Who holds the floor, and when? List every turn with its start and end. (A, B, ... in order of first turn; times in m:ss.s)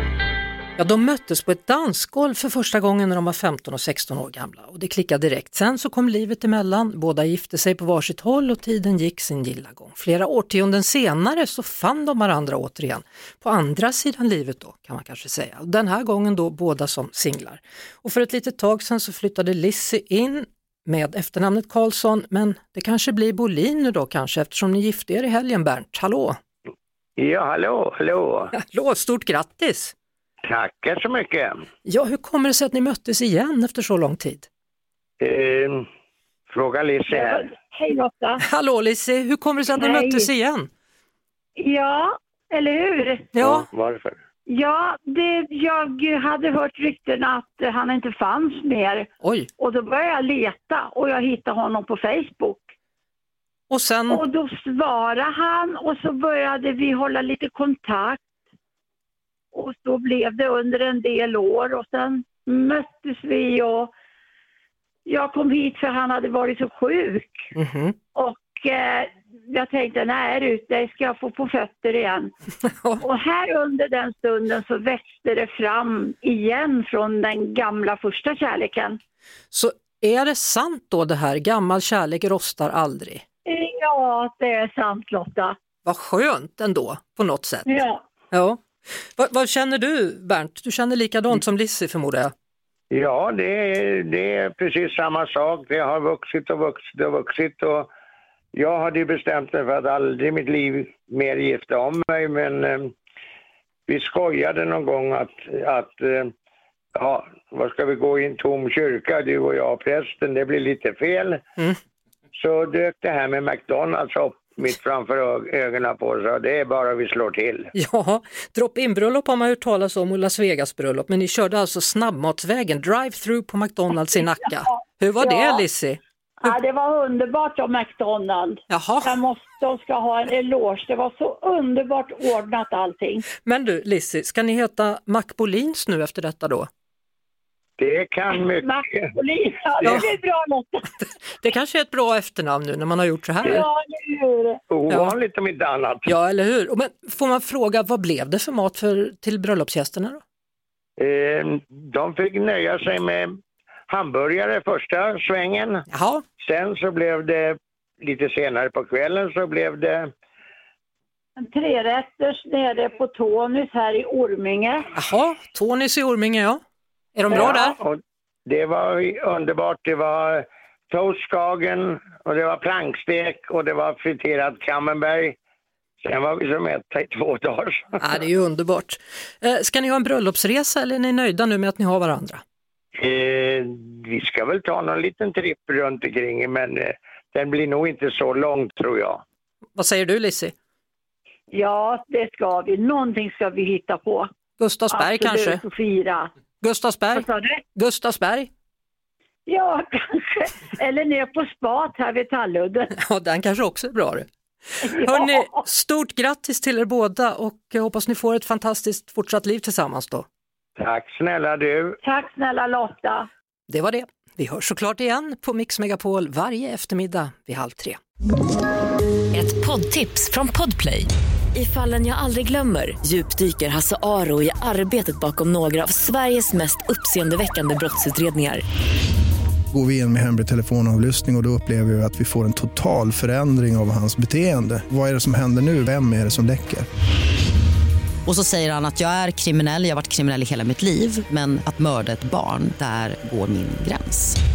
0:00.8-0:26.4 A
0:27.2-0:28.5 B
0:28.5-0:29.9 A
0:30.4-0:31.5 B
0:31.8-0:34.5 A
0:35.2-0:35.8 B
0:36.5-0:37.5 B
0:37.1-0:38.4 C
0:38.4-0:40.7 A
0:39.7-0:40.3 C
0:41.6-0:43.3 C
0:43.4-0:43.6 A
0:43.4-0:44.2 B
0:44.4-0:52.7 C
0:49.2-0:49.5 A
0:53.7-0:54.2 A
0:54.1-0:58.2 C
0:59.5-1:03.9 C
1:05.0-1:07.5 C
1:07.6-1:07.9 A
1:08.1-1:12.3 C
1:13.0-1:19.0 C
1:19.5-1:23.2 A
1:23.4-1:25.6 C
1:25.8-1:27.8 A
1:27.6-1:28.0 C
1:28.3-1:28.6 A
1:29.2-1:32.3 A
1:32.9-1:37.9 B
1:38.5-1:42.9 B
1:43.9-1:46.3 B
1:46.9-1:51.4 B
1:52.4-1:57.7 B
1:57.7-2:06.0 A
2:04.7-2:05.6 C
2:06.4-2:13.3 C
2:08.7-2:09.1 A
2:13.4-2:16.7 A
2:17.8-2:19.1 B
2:18.4-2:20.9 C
2:19.8-2:20.1 A
2:20.9-2:23.6 A
2:23.4-2:24.6 C
2:24.7-2:26.1 B
2:26.0-2:30.2 A
2:31.0-2:35.8 B
2:35.9-2:36.2 A
2:36.4-2:40.1 B
2:41.4-2:44.9 C
2:45.0-2:46.6 A
2:47.1-2:47.8 A
2:47.3-2:55.4 B
2:56.0-2:58.0 B
2:58.0-3:02.4 A
3:03.0-3:09.2 B
3:09.8-3:10.5 A
3:11.5-3:14.3 C
3:14.6-3:15.6 A
3:14.9-3:16.3 C
3:16.6-3:18.5 A
3:17.1-3:17.6 C
3:19.4-3:22.9 C
3:22.9-3:24.3 A
3:24.8-3:30.2 A
3:24.8-3:25.5 C
3:30.8-3:32.0 B
3:32.0-3:33.3 C
3:33.7-3:38.0 A
3:39.3-3:48.6 D
3:49.7-3:56.8 E
3:58.2-4:04.4 F